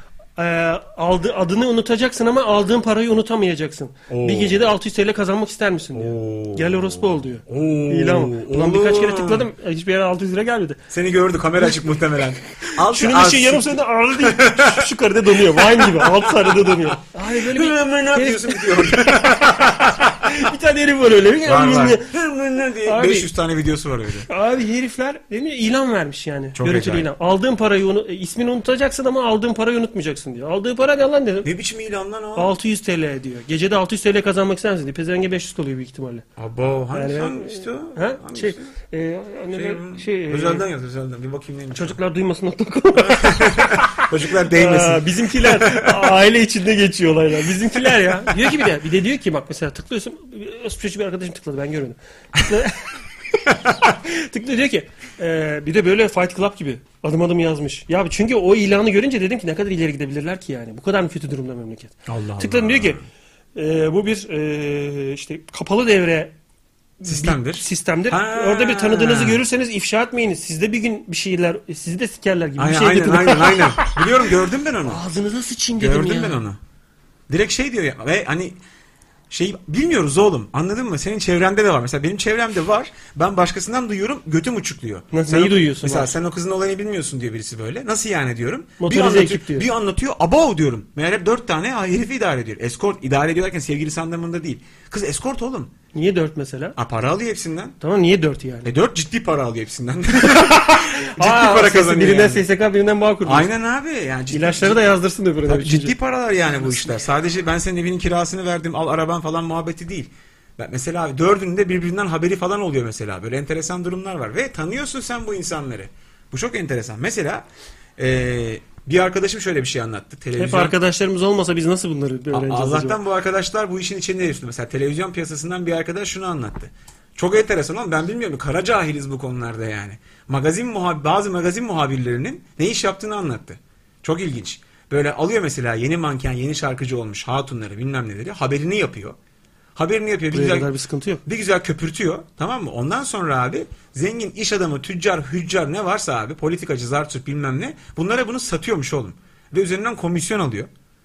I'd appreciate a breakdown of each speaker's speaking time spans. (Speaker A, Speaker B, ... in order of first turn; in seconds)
Speaker A: 0.4-10.8, 12.9-19.3, 20.2-22.1, 22.8-23.3, 24.3-31.5, 32.4-36.3, 36.9-40.7, 41.7-43.8, 44.5-52.9, 53.8-63.0, 63.5-66.3, 67.0-74.1, 74.8-76.4, 85.1-86.2, 88.8-89.7, 95.9-96.8, 97.8-98.7, 100.2-103.5, 104.3-105.9, 106.5-107.0, 120.4-123.0, 140.3-141.2
Speaker B: 4.1-4.7, 5.9-9.5, 10.9-14.9, 15.4-20.4, 21.4-24.3, 26.6-27.1, 31.4-32.5, 36.4-38.7, 39.5-42.0, 43.0-46.1, 48.2-48.6, 62.1-63.0, 67.0-69.4, 72.6-75.0, 75.8-76.6, 77.3-78.6, 79.3-95.7, 96.8-97.8, 98.6-102.5, 103.2-104.9, 105.5-117.5, 118.0-120.7, 122.3-139.2, 139.8-140.7, 141.2-150.7